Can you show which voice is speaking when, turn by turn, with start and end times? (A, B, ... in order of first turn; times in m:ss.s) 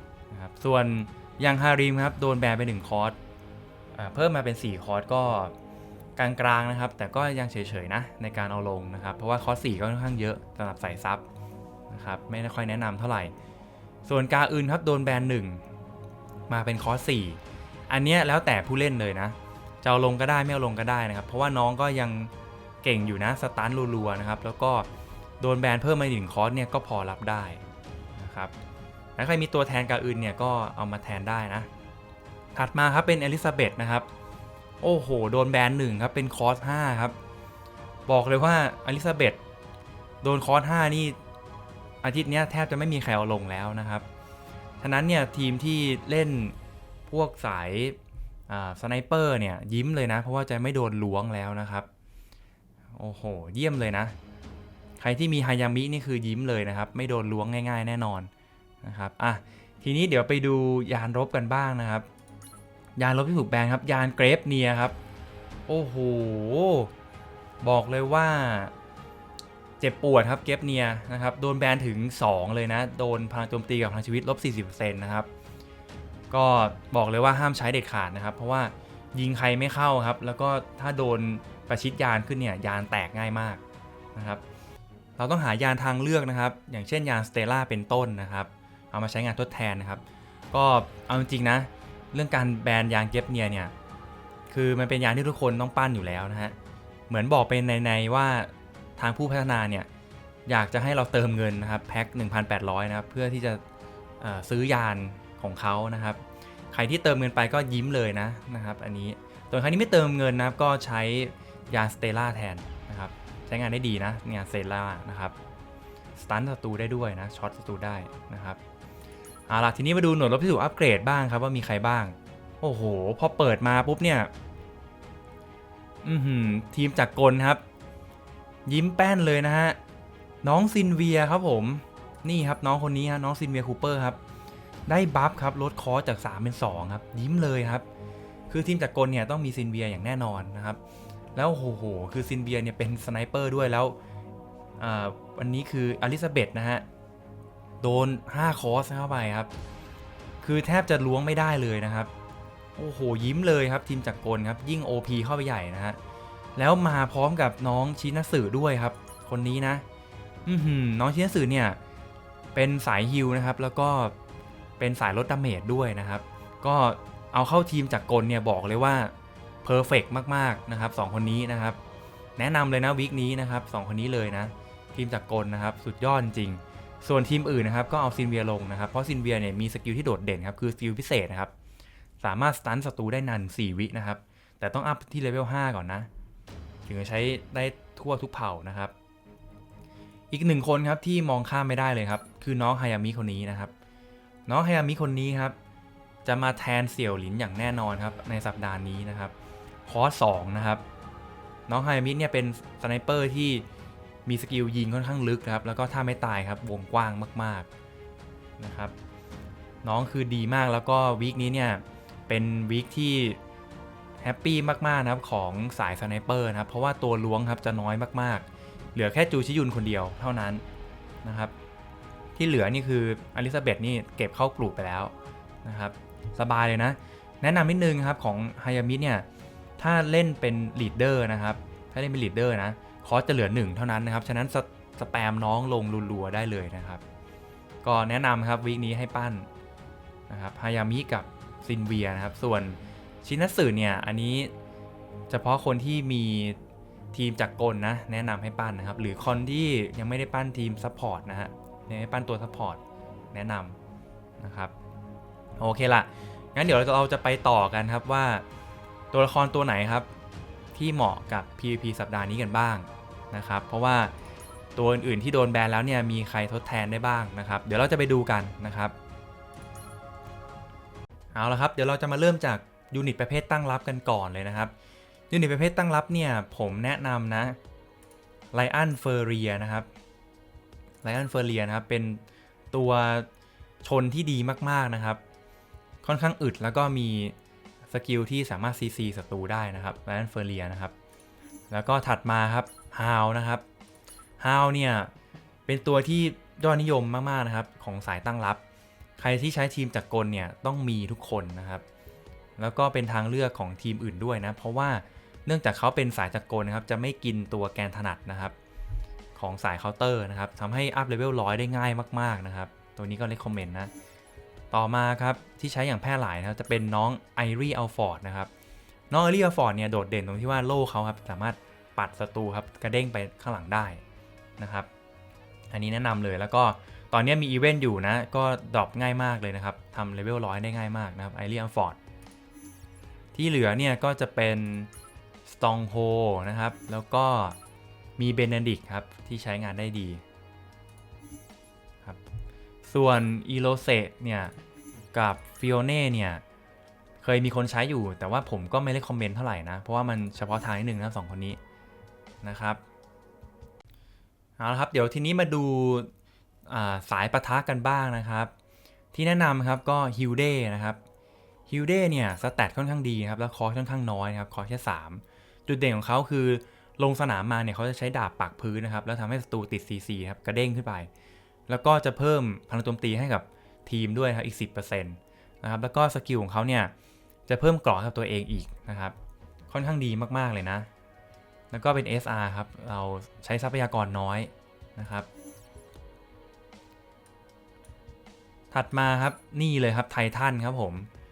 0:00.3-0:03.2 A
0:03.9-0:05.5 A
0:06.2-0:11.2 A
0:11.9-0:13.3 A
0:14.0-0:15.6 A
0:16.5-0:22.3 A
0:22.8-0:24.9 A
0:25.4-0:27.6 A
0:28.2-0:28.5 A
0:29.2-0:31.7 A
0:32.5-0:34.1 A
0:34.8-0:37.2 A
0:38.1-0:39.4 A
0:40.2-0:41.2 A
0:42.0-0:44.0 A
0:44.8-0:46.5 A
0:47.1-0:48.0 A
0:48.5-0:51.9 A
0:52.9-0:54.1 A
0:55.0-0:58.3 A
0:58.8-1:02.1 A
1:03.0-1:04.9 A
1:05.7-1:06.9 A
1:07.6-1:08.7 A
1:09.8-1:15.3 A
1:16.3-1:23.6 A
1:24.1-1:24.4 A
1:25.2-1:33.7 A
1:34.5-1:36.5 A
1:37.1-1:39.9 A
1:40.4-1:43.6 A
1:44.2-1:55.3 A
1:56.2-1:58.6 A
1:59.5-2:04.3 A
2:06.0-2:07.6 A
2:08.6-2:09.8 A
2:10.4-2:14.2 A
2:14.9-2:17.8 A
2:18.5-2:20.8 A
2:21.3-2:24.0 A
2:24.8-2:26.8 A
2:27.8-2:29.5 A
2:30.4-2:32.1 A
2:32.8-2:36.0 A
2:36.6-2:39.8 A
2:40.4-2:41.8 A
2:42.5-2:44.1 A
2:44.8-2:49.1 A
2:49.6-2:51.8 A
2:52.4-3:01.5 A
3:02.2-3:06.1 A
3:06.8-3:08.9 A
3:10.3-3:13.7 A
3:14.5-3:15.6 A
3:16.2-3:19.3 A
3:19.8-3:20.8 A
3:21.7-3:23.6 A
3:24.2-3:27.7 A
3:28.6-3:28.9 A
3:29.8-3:33.4 A
3:34.2-3:40.6 A
3:41.2-3:41.5 A
3:42.4-3:45.1 A
3:45.6-3:49.2 A
3:49.8-3:57.0 A
3:57.8-3:59.5 A
4:00.3-4:04.5 A
4:05.3-4:06.6 A
4:07.1-4:12.8 A
4:13.3-4:13.8 A
4:14.4-4:14.7 A
4:15.6-4:18.4 A
4:19.1-4:20.1 A
4:20.7-4:24.1 A
4:24.8-4:28.9 A
4:31.3-4:34.7 A
4:35.3-4:37.6 A
4:38.5-4:39.9 A
4:41.0-4:43.3 A
4:43.8-4:45.2 A
4:46.0-4:47.3 A
4:47.9-4:50.9 A
4:51.7-4:53.6 A
4:54.4-4:55.1 A
4:55.7-4:58.6 A
4:59.2-5:01.8 A
5:02.6-5:08.5 A
5:09.4-5:13.9 A
5:14.7-5:18.5 A
5:19.1-5:24.0 A
5:24.6-5:24.9 A
5:25.7-5:32.0 A
5:33.3-5:34.9 A
5:35.4-5:37.6 A
5:38.2-5:40.2 A
5:42.9-5:44.5 A
5:45.1-5:46.4 A
5:47.2-5:51.6 A
5:52.4-5:52.8 A
5:54.6-5:56.1 A
5:56.6-5:58.5 A
5:59.1-6:01.0 A
6:01.7-6:11.1 A
6:11.7-6:16.9 A
6:17.5-6:19.1 A
6:19.7-6:20.9 A
6:21.7-6:25.3 A
6:28.7-6:31.1 A